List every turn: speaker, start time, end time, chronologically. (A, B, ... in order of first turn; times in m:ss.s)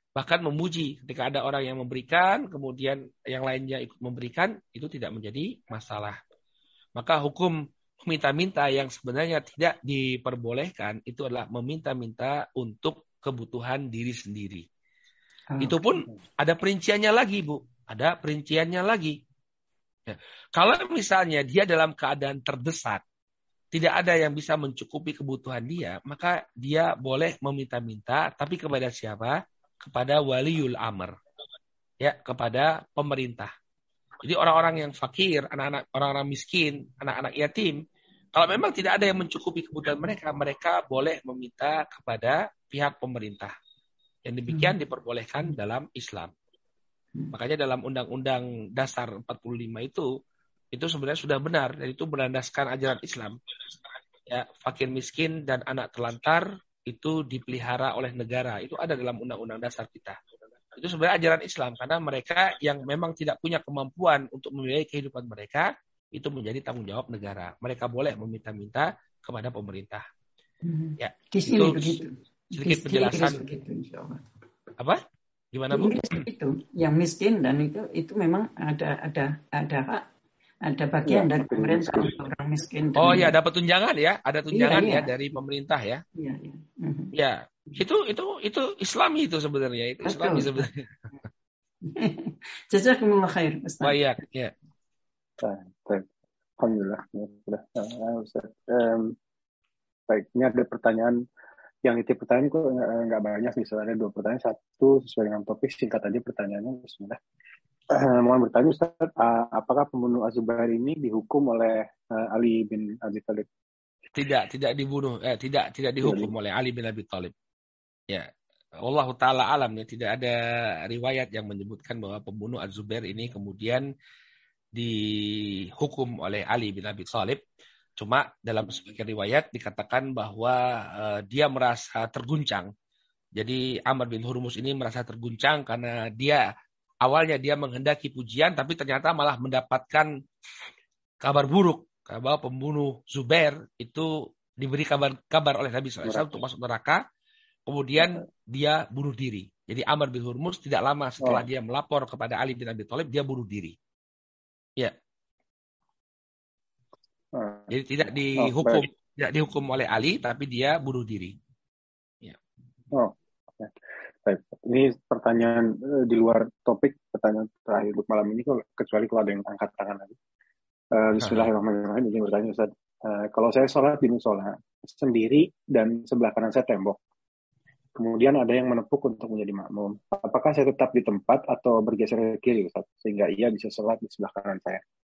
0:00.2-0:06.2 A
0:07.0-0:14.6 A
0:15.5-0:15.8 B
0:15.6-0:19.2 A
0:20.1-0:23.0 A
0:23.7-0:31.1 A
0:32.0-0:33.5 A
0:34.2-0:37.8 A
0:38.3-0:43.5 A
0:44.3-0:46.3 A
0:44.5-0:44.8 B
0:47.3-0:50.1 A
0:50.7-0:53.4 A
0:54.3-1:00.2 A
1:00.8-1:10.0 A
1:10.6-1:14.2 B
1:11.0-1:12.0 A
1:12.5-1:13.4 A
1:15.5-1:16.2 A
1:15.7-1:20.0 B
1:20.6-1:23.4 B
1:21.1-1:22.3 C
1:23.0-1:26.0 A
1:24.5-1:25.1 B
1:26.2-1:27.1 B
1:27.1-1:30.9 A
1:30.0-1:30.6 B
1:31.8-1:34.0 B
1:33.8-1:34.5 A
1:35.4-1:36.0 C
1:36.6-1:39.2 C
1:40.1-1:41.2 C
1:41.8-1:47.2 C
1:47.9-1:53.5 C
1:54.2-1:57.3 A
1:56.0-1:56.3 C
1:58.8-2:03.9 A
2:04.8-2:07.4 A
2:08.0-2:12.7 A
2:13.4-2:16.4 A
2:17.0-2:20.1 A
2:21.2-2:27.0 A
2:26.0-2:26.4 C
2:27.7-2:33.8 A
2:31.2-2:31.4 C
2:37.3-2:37.7 C
2:37.7-2:41.4 A
2:38.4-2:38.9 C
2:42.9-2:43.7 C
2:44.2-2:50.2 C
2:50.9-2:57.0 C
2:51.2-2:51.5 A
2:58.0-3:04.8 C